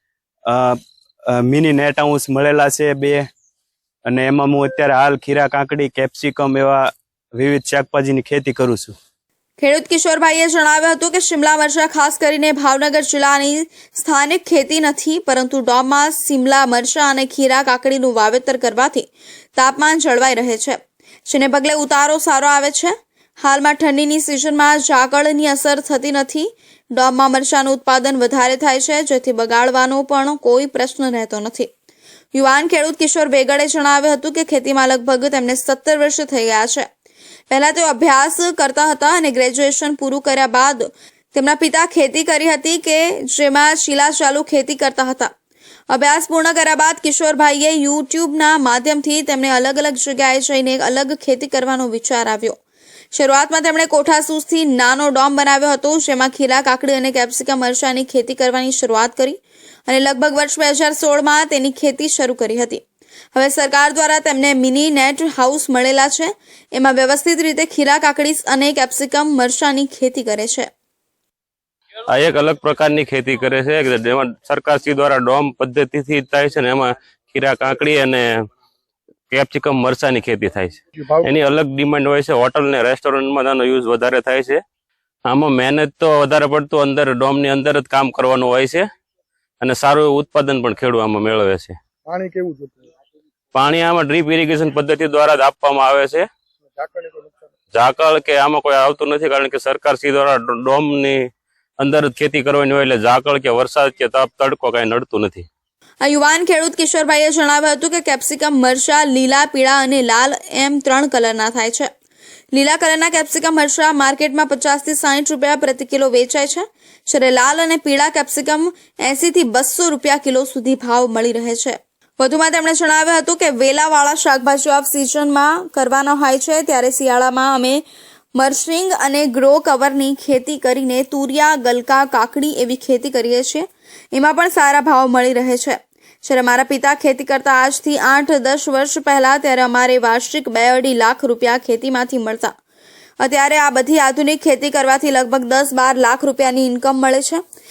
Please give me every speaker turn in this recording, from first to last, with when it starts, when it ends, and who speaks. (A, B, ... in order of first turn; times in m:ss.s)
0:00.5-0:03.3 A
0:04.1-0:09.0 A
0:09.6-0:31.7 B
0:32.3-0:36.9 B
0:37.5-0:45.3 B
0:45.9-0:52.6 B
0:53.1-1:02.8 B
1:03.3-1:10.7 B
1:12.1-1:18.5 C
1:19.3-1:24.6 C
1:21.0-1:21.3 D
1:25.2-1:28.9 C
1:29.6-1:31.8 C
1:32.0-1:32.9 D
1:33.5-1:36.3 C
1:36.8-1:37.5 D
1:37.7-1:41.2 C
1:41.8-1:45.5 C
1:46.0-1:51.9 B
1:52.5-2:07.8 B
2:08.4-2:22.5 B
2:23.2-2:27.4 B